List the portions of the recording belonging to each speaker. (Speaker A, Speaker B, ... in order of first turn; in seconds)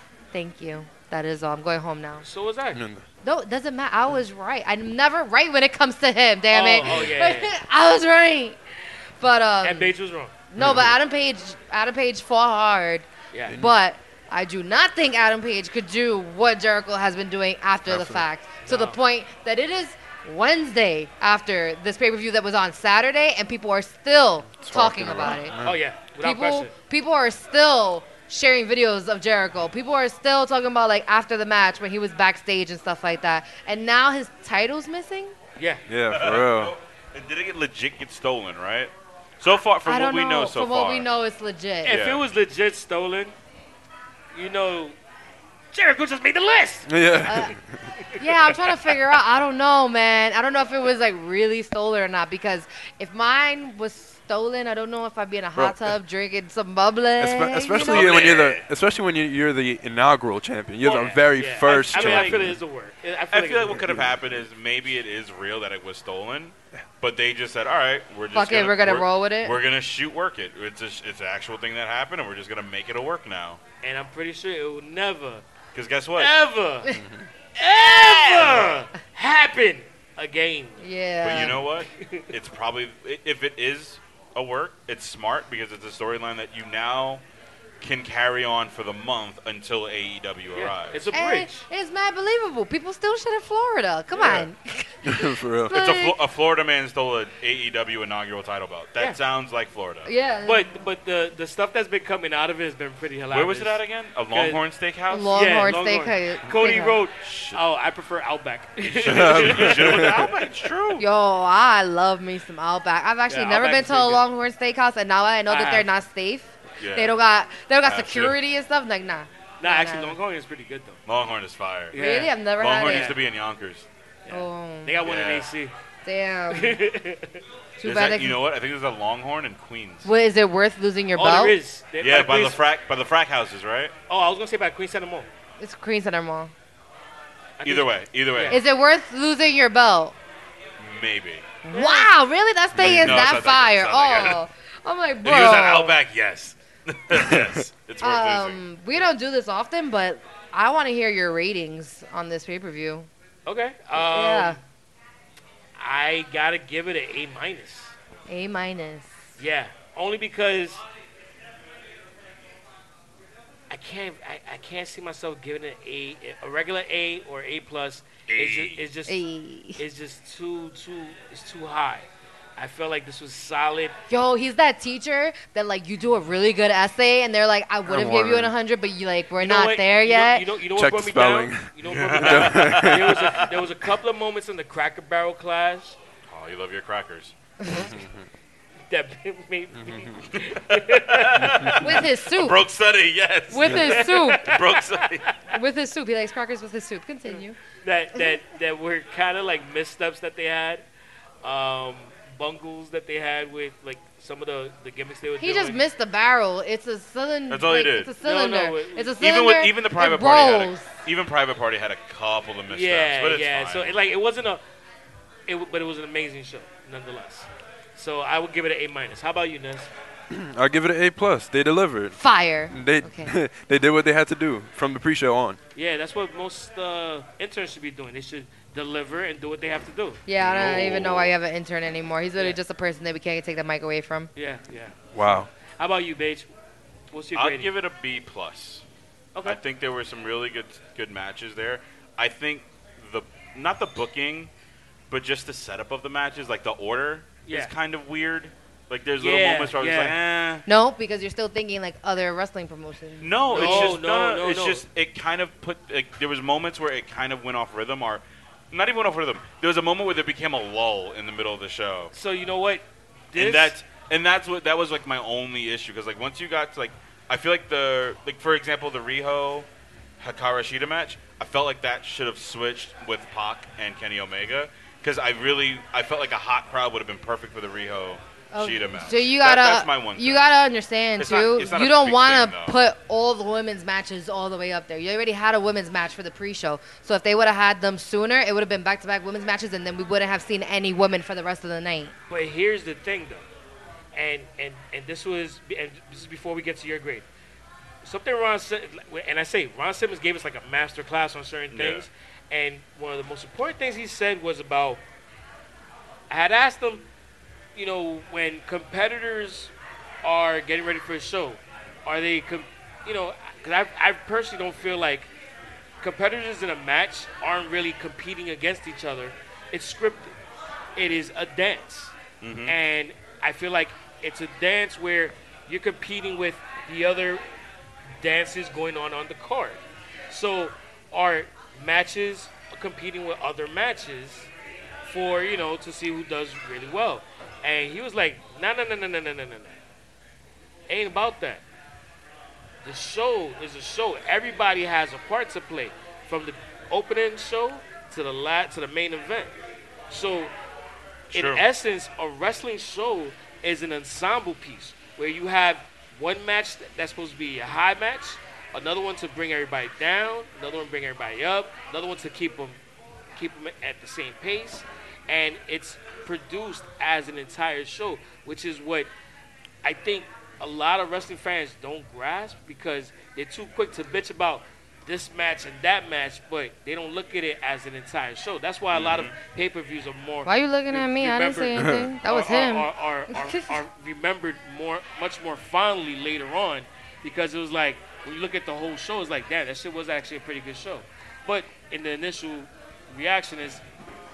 Speaker A: 0.3-2.2, 3.2-8.6, 9.2-9.9, 10.5-25.6, 26.2-35.3, 39.8-42.0, 47.2-47.5, 48.2-58.3, 68.3-69.6, 80.8-81.6, 91.1-96.2, 100.0-100.7, 105.1-107.0, 111.0-120.2, 121.9-123.1, 124.3-125.0, 126.0-126.8, 127.8-128.4, 130.0-131.6, 135.6-136.5, 138.5-140.1, 141.6-146.0, 148.0-153.1, 153.9-154.6, 158.3-159.2, 169.1-169.8, 174.1-180.5, 187.6-187.9, 191.8-192.6, 193.5-194.5, 195.5-197.6, 205.4-210.9, 222.2-223.3, 230.3-234.3, 250.7-254.0, 278.5-292.1, 380.4-383.8
Speaker B: 2.2-2.8, 6.5-7.5, 9.6-10.3, 13.3-13.6, 18.6-19.0, 25.6-26.7, 35.6-35.8, 41.8-43.3, 44.3-45.0, 45.7-46.9, 48.0-48.8, 60.8-63.8, 73.8-75.4, 76.2-77.0, 77.6-80.8, 81.3-82.3, 90.5-91.7, 100.4-103.8, 104.3-104.6, 105.3-110.5, 113.3-114.2, 115.5-115.9, 119.6-121.0, 121.9-123.2, 124.2-125.7, 126.5-127.4, 131.1-132.6, 134.1-135.3, 137.6-138.6, 141.7-142.1, 153.4-154.6, 155.8-157.9, 159.4-160.8, 163.7-169.2, 169.8-174.0, 179.4-186.0, 188.9-191.8, 193.7-195.4, 197.3-200.8, 201.4-205.8, 208.2-209.1, 212.7-214.6, 215.5-219.9, 225.7-230.2, 234.3-235.0, 235.8-236.5, 237.1-237.7, 247.4-247.7, 249.2-250.2, 253.5-254.8, 262.1-263.8, 292.3-293.4, 294.1-297.2, 298.0-305.0, 306.3-307.0, 307.7-315.3, 316.0-320.3, 320.9-322.1, 322.6-327.4, 328.2-334.5, 335.0-339.8, 340.9-341.6, 342.8-349.5, 350.1-350.5, 351.3-362.8, 363.3-369.1, 369.8-393.8
Speaker C: 2.7-3.0, 10.6-11.0, 13.5-13.8, 17.9-18.3, 24.6-25.8, 35.9-36.7, 46.9-47.9, 55.5-56.0, 57.2-62.6, 63.7-64.1, 76.9-77.2, 95.0-95.8, 109.1-110.3, 142.7-143.3, 147.2-147.6, 177.8-178.5, 180.7-183.3, 187.7-188.3, 189.7-190.2, 191.4-191.8, 220.3-222.2, 222.7-225.6, 230.4-231.0, 235.1-235.5, 381.8-382.1
Speaker D: 36.1-41.1, 41.9-42.2, 57.7-58.6, 61.6-62.5, 63.3-73.6, 75.7-76.3, 77.6-78.8, 81.2-87.2, 87.8-91.1, 94.1-94.5, 95.7-100.1, 103.3-105.5, 107.2-107.6, 108.8-111.0, 116.8-117.2, 117.8-118.3, 121.0-122.0, 122.6-123.9, 125.0-125.5, 127.8-130.1, 132.0-133.9, 137.6-138.6, 140.8-141.5, 142.8-144.4, 145.2-148.6, 168.3-168.8, 181.8-183.3, 186.3-187.3, 190.9-195.3, 207.5-208.1, 209.2-213.9, 230.4-231.3, 237.3-238.8, 239.4-244.5, 245.1-250.7, 253.2-262.1, 263.3-269.7, 270.2-280.5, 281.2-282.8, 301.7-302.1, 322.4-322.7, 351.3-351.6, 378.9-379.3